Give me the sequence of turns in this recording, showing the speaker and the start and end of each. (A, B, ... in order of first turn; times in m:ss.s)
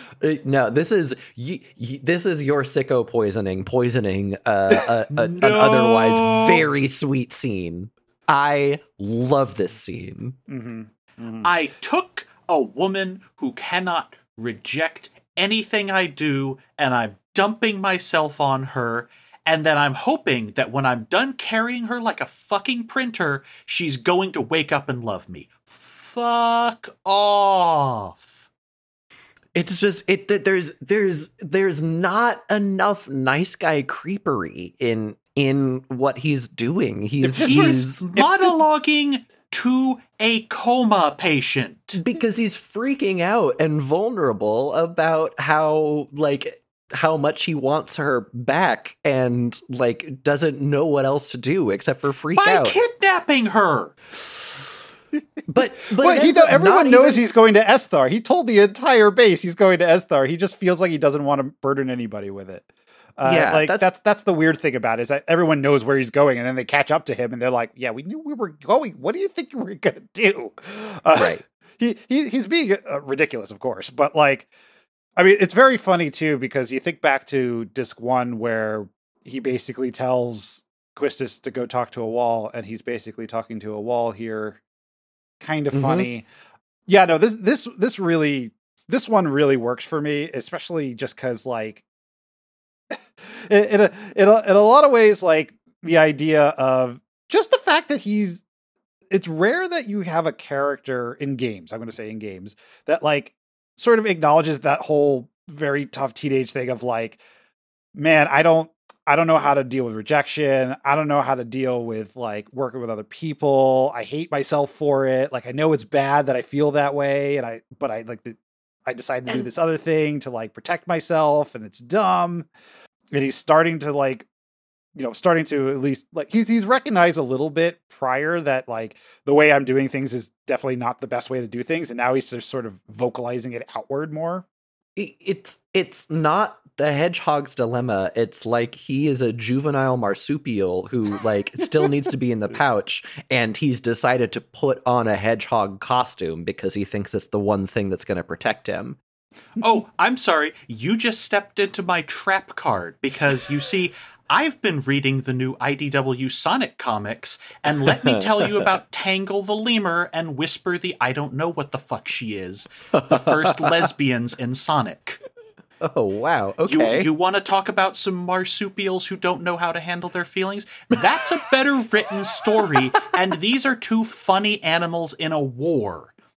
0:00.2-0:10.4 A
0:05.1-0:06.7 B
0:10.5-0:11.5 C
0:11.4-0:28.5 B
0:29.6-0:38.1 A
0:37.2-0:38.5 C
0:37.4-0:42.0 B
0:42.0-0:52.8 A
0:52.4-0:54.0 B
0:55.5-0:57.2 A
0:56.0-1:14.5 C
1:03.2-1:03.9 A
1:11.2-1:11.4 A
1:15.2-1:24.6 C
1:25.4-1:26.3 C
1:25.7-1:26.1 A
1:26.9-1:31.8 C
1:32.9-1:38.4 C
1:39.1-1:47.2 C
1:48.0-1:58.4 C
1:58.9-2:02.5 C
2:03.1-2:04.3 C
2:05.0-2:14.4 C
2:15.0-2:29.0 A
2:29.6-2:45.2 B
2:37.7-2:38.7 A
2:42.9-2:43.9 A
2:45.8-2:47.1 A
2:46.7-2:56.2 B